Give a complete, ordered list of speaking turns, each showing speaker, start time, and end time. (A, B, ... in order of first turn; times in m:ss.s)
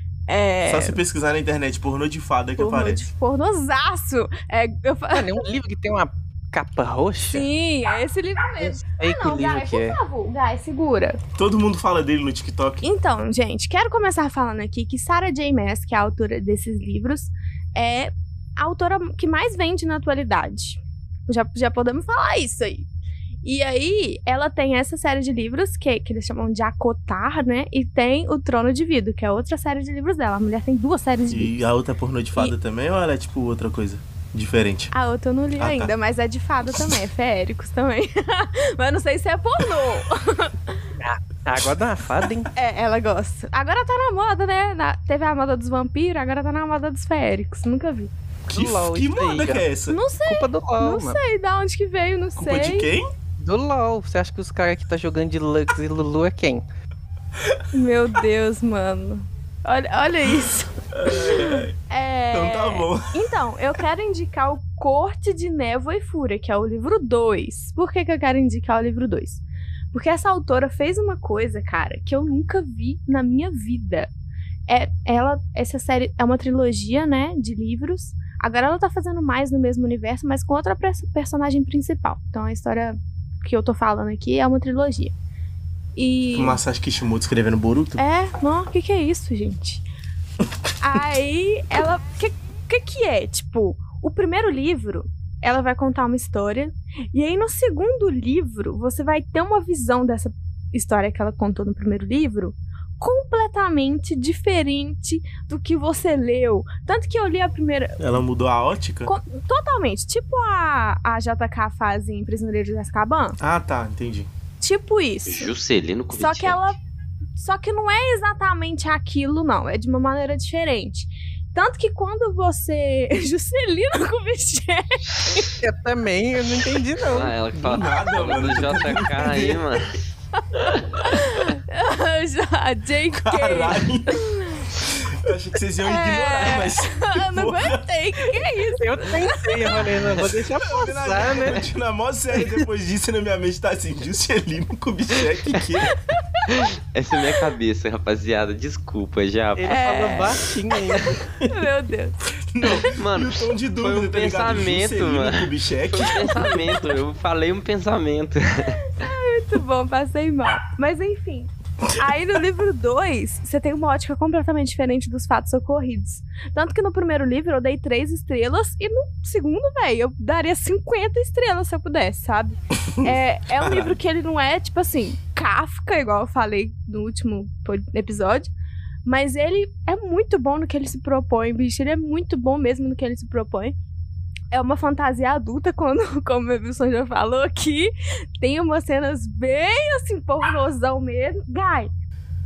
0:00.3-0:01.0 A
0:00.6-0:03.1 B
0:02.6-0:05.4 A
0:05.1-0:07.4 C
0:07.3-0:11.2 A
0:08.6-0:10.0 C
0:11.4-0:12.9 B
0:12.8-0:22.9 A
0:23.4-0:31.5 A
0:31.3-0:34.9 B
0:34.9-0:40.8 A
0:35.6-0:35.9 B
0:41.0-0:42.5 C
0:42.5-0:48.1 A
0:48.5-0:49.6 C
0:48.5-0:50.0 B
0:49.9-0:52.9 A
0:50.2-0:51.2 C
0:52.4-0:53.1 B
0:53.4-0:56.6 C
0:57.7-1:14.1 A
1:00.9-1:01.7 B
1:02.3-1:03.3 B
1:14.7-1:25.1 A
1:26.0-1:26.6 A
1:26.3-1:28.0 B
1:28.0-1:29.8 A
1:30.8-1:48.0 A
1:48.0-1:49.1 B
1:49.0-1:53.4 A
1:53.4-1:54.3 B
1:54.6-1:55.5 A
1:55.3-1:56.6 D
1:56.1-1:56.8 A
1:57.4-2:05.0 A
2:05.3-2:07.3 C
2:07.0-2:10.0 D
2:07.5-2:09.8 B
2:11.0-2:14.7 A
2:13.1-2:14.2 B
2:15.1-2:18.4 B
2:15.8-2:19.9 A
2:18.8-2:21.6 C
2:20.6-2:25.9 B
2:26.5-2:29.8 D
2:29.6-2:31.1 C
2:29.7-2:30.4 A
2:31.4-2:32.1 A
2:32.6-2:36.7 B
2:33.0-2:35.4 D
2:36.0-2:38.8 D
2:39.0-2:58.5 A
2:52.9-2:54.0 B
2:59.0-3:03.7 A
3:04.5-3:11.9 A